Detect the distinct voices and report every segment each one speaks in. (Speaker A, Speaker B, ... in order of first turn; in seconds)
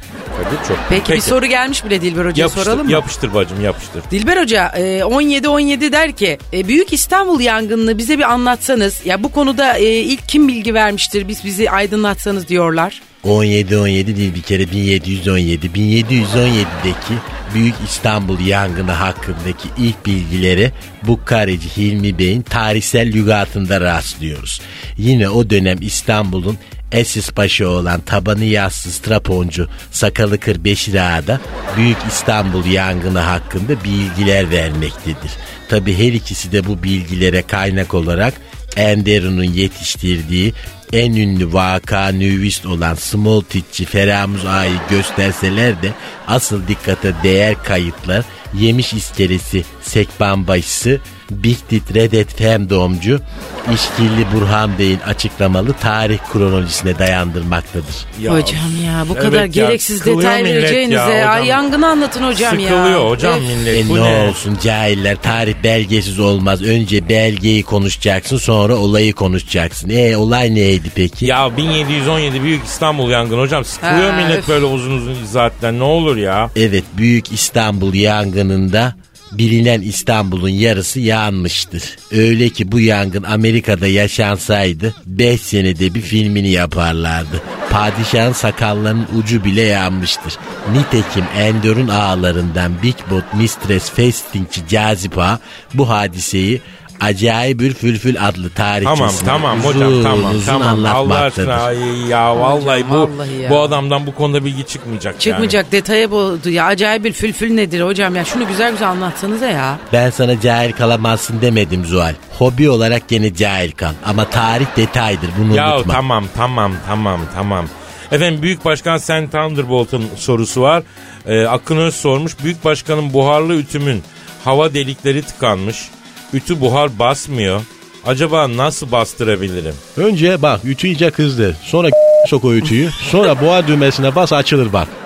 Speaker A: 0.3-1.4, 2.3-4.1, 58.1-61.6, 62.3-64.4, 71.2-76.5, 98.8-105.6, 115.5-129.8
Speaker B: 0.9-3.1, 4.1-13.0, 58.2-63.5, 73.8-74.6, 102.3-103.8, 105.2-109.8
Speaker C: 13.2-58.1, 63.7-71.3, 76.5-101.7, 109.9-116.0
Speaker D: 130.0-134.9